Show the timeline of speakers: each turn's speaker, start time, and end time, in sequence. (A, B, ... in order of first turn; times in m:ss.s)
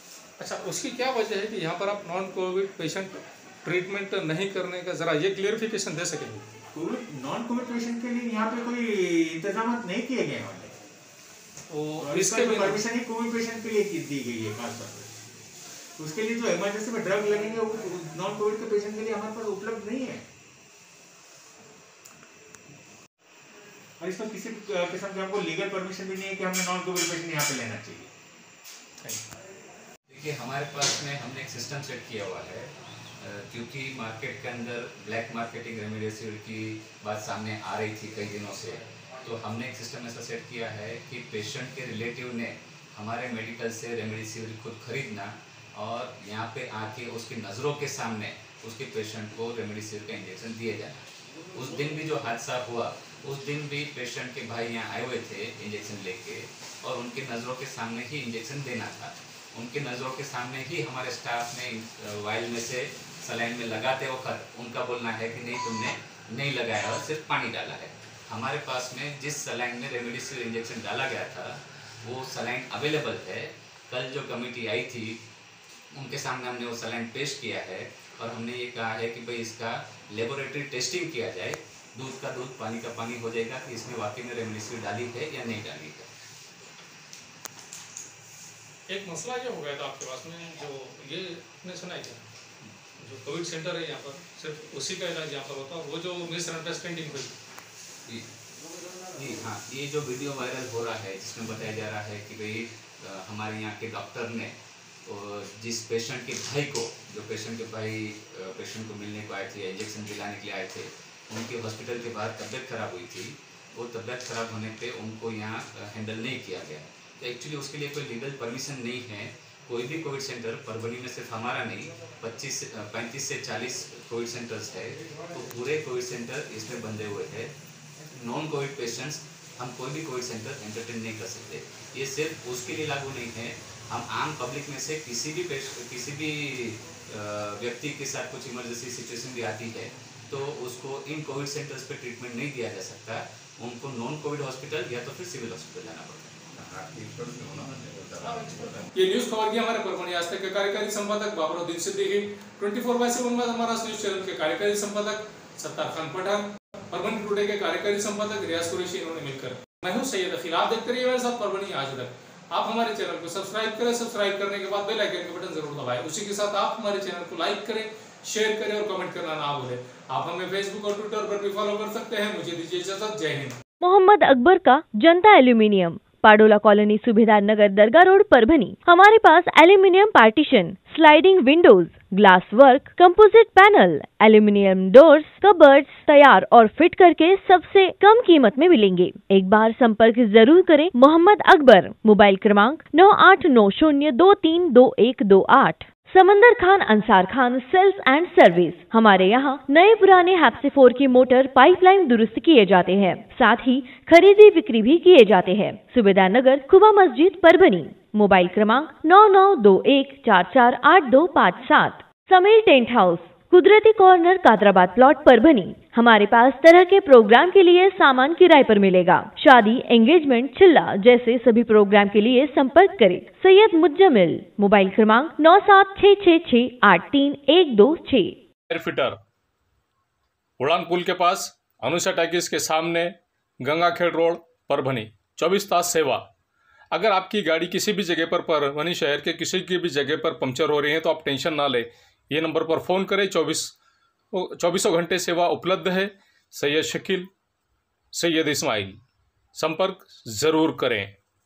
0:00.4-0:06.4 A
0:06.7-0:10.7 B
0:11.7-0:12.8 A
0:12.0-0:15.1 B
0:16.0-0:20.2 B
0:24.0-0:28.1 B
0:30.1-1:15.2 C
1:15.9-1:26.1 C
1:28.9-1:32.2 A
1:33.0-1:37.3 A
1:39.1-1:44.5 C
1:45.0-2:07.5 C
2:08.1-2:28.9 C
2:28.2-2:53.6 A
2:53.8-3:48.4 D
3:48.7-3:49.2 A
3:50.6-3:56.3 A
3:56.9-4:03.7 A
4:04.3-4:07.3 A
4:08.1-4:09.0 A
4:09.5-4:11.1 A